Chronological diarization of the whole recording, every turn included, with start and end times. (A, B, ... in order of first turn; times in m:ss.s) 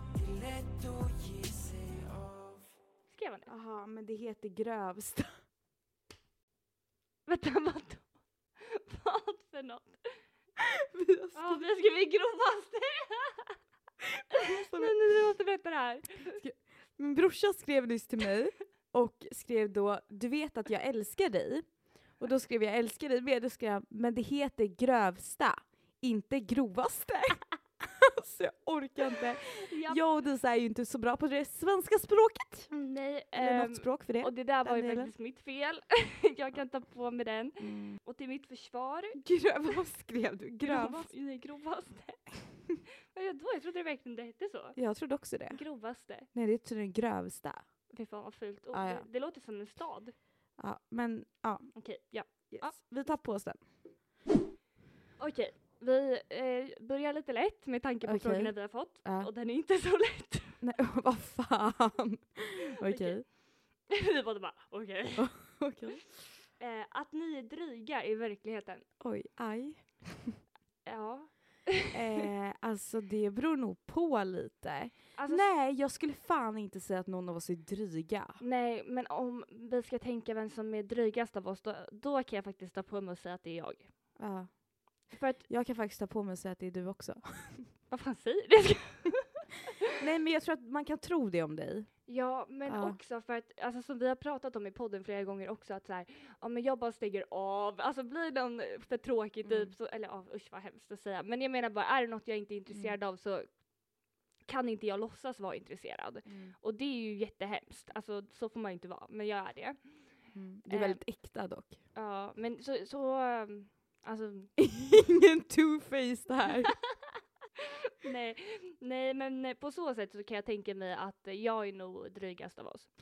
0:00.1-0:02.8 A
0:03.1-0:03.5 B
0:03.5-0:05.4 C
0:07.3-0:08.1 B
0:08.6-0:10.1 B
0:10.6-0:11.7 C
0:11.4-0:13.6 B
0:14.3-0:15.0 C
0:14.3-0:16.4 B
0:16.3-0:21.7 C
0:22.2-0:32.7 C
0:29.6-0:30.0 B
0:32.7-0:39.2 B
0:33.4-0:35.1 C
0:37.6-0:38.0 C
0:39.2-0:41.1 C
0:40.6-0:42.3 B
0:43.1-0:44.8 B
0:44.8-0:45.6 C
0:45.5-0:46.3 B
0:46.3-0:47.7 C
0:47.9-0:50.1 B
0:48.7-0:49.1 C
0:50.6-0:51.7 C
0:51.8-0:52.8 B
0:52.5-0:53.6 C
0:55.2-1:00.6 B
0:58.0-0:59.3 C
1:00.6-1:03.2 C
1:02.9-1:03.3 B
1:03.9-1:05.3 B
1:05.2-1:06.0 C
1:06.6-1:08.8 B
1:09.0-1:10.4 C
1:10.8-1:12.2 B
1:11.9-1:18.4 C
1:15.2-1:15.5 B
1:18.4-1:23.9 B
1:24.2-1:24.5 C
1:25.1-1:25.4 B
1:25.4-1:27.7 C
1:27.9-1:29.4 B
1:30.0-1:31.9 C
1:32.1-1:43.5 B
1:32.7-1:33.0 C
1:39.4-1:39.7 C
1:42.7-1:43.0 C
1:44.5-1:49.8 B
1:46.3-1:46.6 C
1:50.3-1:51.8 C
1:50.7-1:51.0 B
1:51.9-1:54.5 B
1:54.6-1:56.8 C
1:57.6-2:02.9 B